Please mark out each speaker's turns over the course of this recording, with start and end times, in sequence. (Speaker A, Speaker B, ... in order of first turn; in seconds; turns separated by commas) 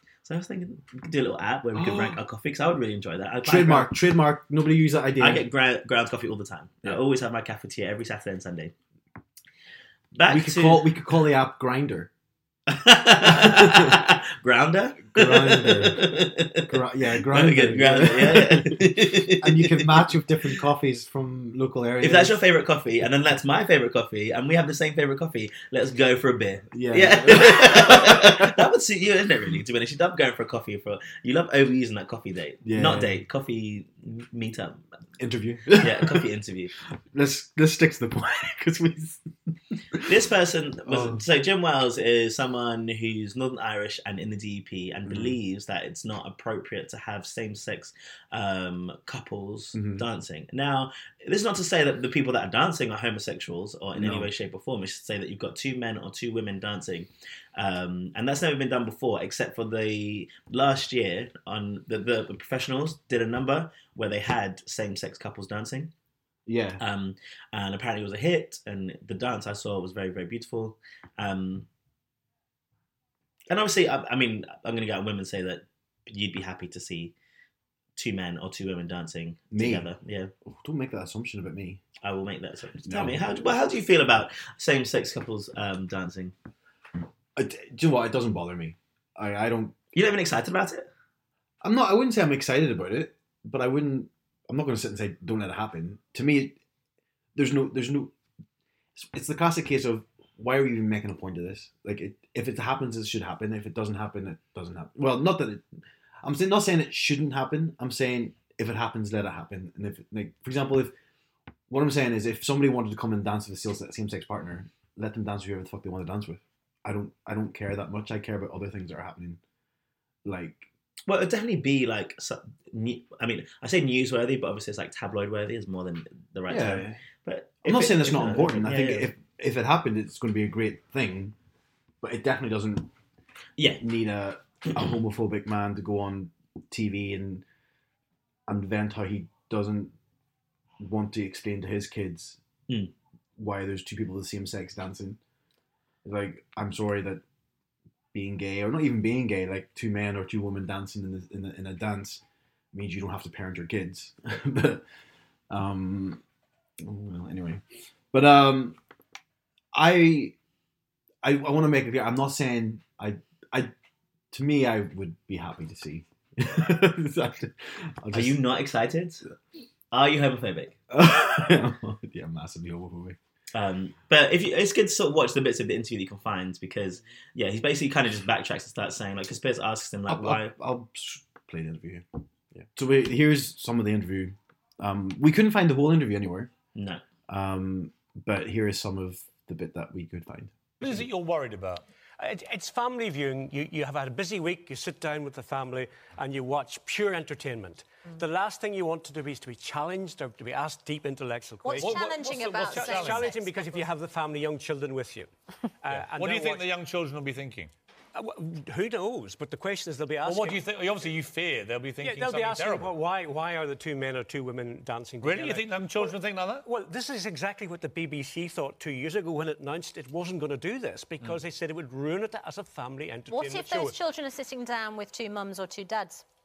Speaker A: 0.2-3.9, Speaker B: 1.7-2.2, Speaker B: 3.4-5.5, Speaker A: 5.2-8.7, Speaker A: 10.1-10.9, Speaker B: 10.3-12.1, Speaker A: 12.7-20.2, Speaker B: 13.2-14.0, Speaker B: 15.1-22.4, Speaker A: 22.0-34.8, Speaker B: 26.7-28.5, Speaker B: 32.6-33.2, Speaker B: 35.2-36.2, Speaker A: 35.8-36.7, Speaker B: 37.1-40.0, Speaker A: 40.0-65.9, Speaker B: 40.9-41.2, Speaker B: 45.1-45.4, Speaker B: 49.7-50.0, Speaker B: 54.0-54.3, Speaker B: 66.5-66.8, Speaker A: 66.8-71.7, Speaker A: 73.5-77.1, Speaker A: 78.0-80.3, Speaker B: 79.5-79.9, Speaker B: 80.4-81.8, Speaker A: 82.0-86.3, Speaker B: 82.8-83.6, Speaker B: 87.3-89.8, Speaker A: 89.9-90.9, Speaker B: 91.6-96.6, Speaker B: 97.3-98.1, Speaker B: 99.0-105.7, Speaker B: 106.2-110.9, Speaker B: 111.7-119.4, Speaker B: 120.2-120.7, Speaker A: 121.1-129.1, Speaker B: 126.5-127.0, Speaker B: 127.6-131.3, Speaker B: 132.0-132.9, Speaker A: 133.6-133.8, Speaker B: 133.8-137.4, Speaker B: 138.5-139.9, Speaker B: 140.8-142.4, Speaker B: 143.4-145.2, Speaker B: 146.0-147.2, Speaker B: 148.1-152.2, Speaker B: 152.7-154.8, Speaker B: 155.5-156.2, Speaker B: 156.8-158.8, Speaker B: 159.7-160.3, Speaker B: 161.2-163.7, Speaker B: 164.3-168.4, Speaker A: 168.1-169.2, Speaker A: 169.9-170.8, Speaker B: 170.9-173.2, Speaker A: 173.5-180.5, Speaker B: 180.1-182.0, Speaker B: 182.6-186.5, Speaker A: 186.7-187.0, Speaker B: 187.3-191.0, Speaker C: 190.8-191.8, Speaker D: 192.2-205.3, Speaker E: 201.6-203.8, Speaker C: 201.8-203.3, Speaker D: 205.8-206.7, Speaker C: 205.9-207.7, Speaker D: 208.1-210.6, Speaker C: 210.2-213.0, Speaker D: 212.0-224.0, Speaker C: 215.2-216.7, Speaker E: 223.3-226.2